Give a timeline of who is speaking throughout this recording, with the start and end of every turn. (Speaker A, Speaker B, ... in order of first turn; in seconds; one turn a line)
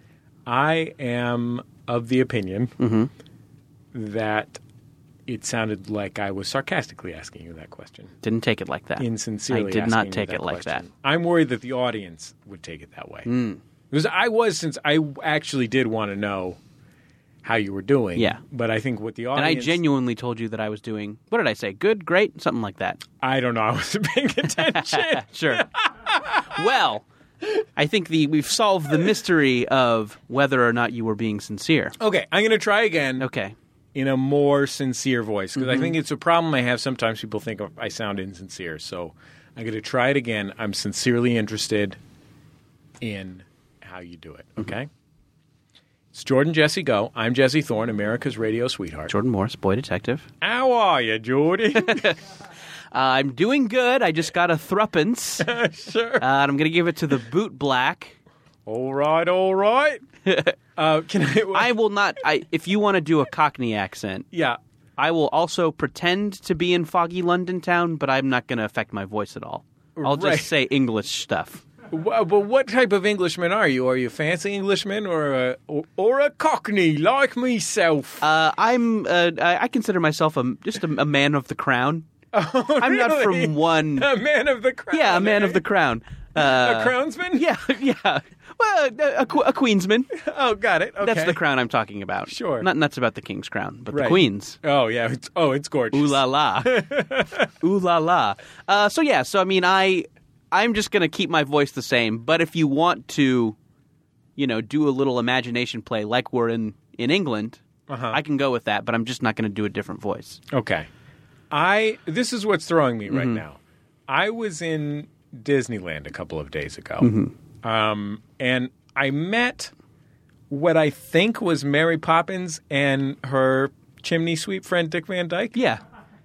Speaker A: 0.5-2.8
Speaker B: 2.8-3.1
Speaker A: 3.9-4.6
Speaker A: 5.3-8.1
Speaker B: 8.2-10.9
Speaker A: 9.0-13.3
Speaker B: 13.3-13.6
Speaker A: 13.9-16.6
Speaker A: 17.4-19.8
Speaker B: 18.2-18.4
Speaker B: 19.4-23.0
Speaker A: 23.2-26.7
Speaker B: 24.6-25.6
Speaker B: 26.5-27.0
Speaker B: 27.8-32.0
Speaker A: 32.0-33.3
Speaker B: 33.2-33.5
Speaker A: 34.0-42.0
Speaker B: 35.6-35.9
Speaker A: 43.0-44.9
Speaker A: 46.1-49.1
Speaker B: 49.1-50.3
Speaker A: 50.4-52.2
Speaker B: 51.8-52.2
Speaker B: 52.9-55.5
Speaker A: 55.4-56.3
Speaker B: 56.2-58.1
Speaker A: 58.7-60.0
Speaker B: 60.3-60.6
Speaker A: 60.8-61.7
Speaker B: 61.5-64.3
Speaker A: 64.3-64.6
Speaker B: 65.0-71.6
Speaker A: 70.0-70.5
Speaker A: 71.9-78.3
Speaker B: 78.2-82.1
Speaker A: 82.3-85.6
Speaker B: 82.8-84.1
Speaker B: 84.9-90.1
Speaker A: 86.4-87.4
Speaker A: 90.1-91.4
Speaker B: 91.0-94.6
Speaker A: 92.3-92.7
Speaker A: 93.9-97.5
Speaker B: 95.9-96.9
Speaker B: 97.6-103.6
Speaker B: 104.4-107.6
Speaker A: 107.9-108.2
Speaker B: 108.1-110.4
Speaker A: 110.5-110.9
Speaker A: 111.5-117.1
Speaker B: 113.1-113.4
Speaker B: 117.0-117.3
Speaker A: 117.6-119.7
Speaker A: 120.5-125.6
Speaker B: 125.6-125.8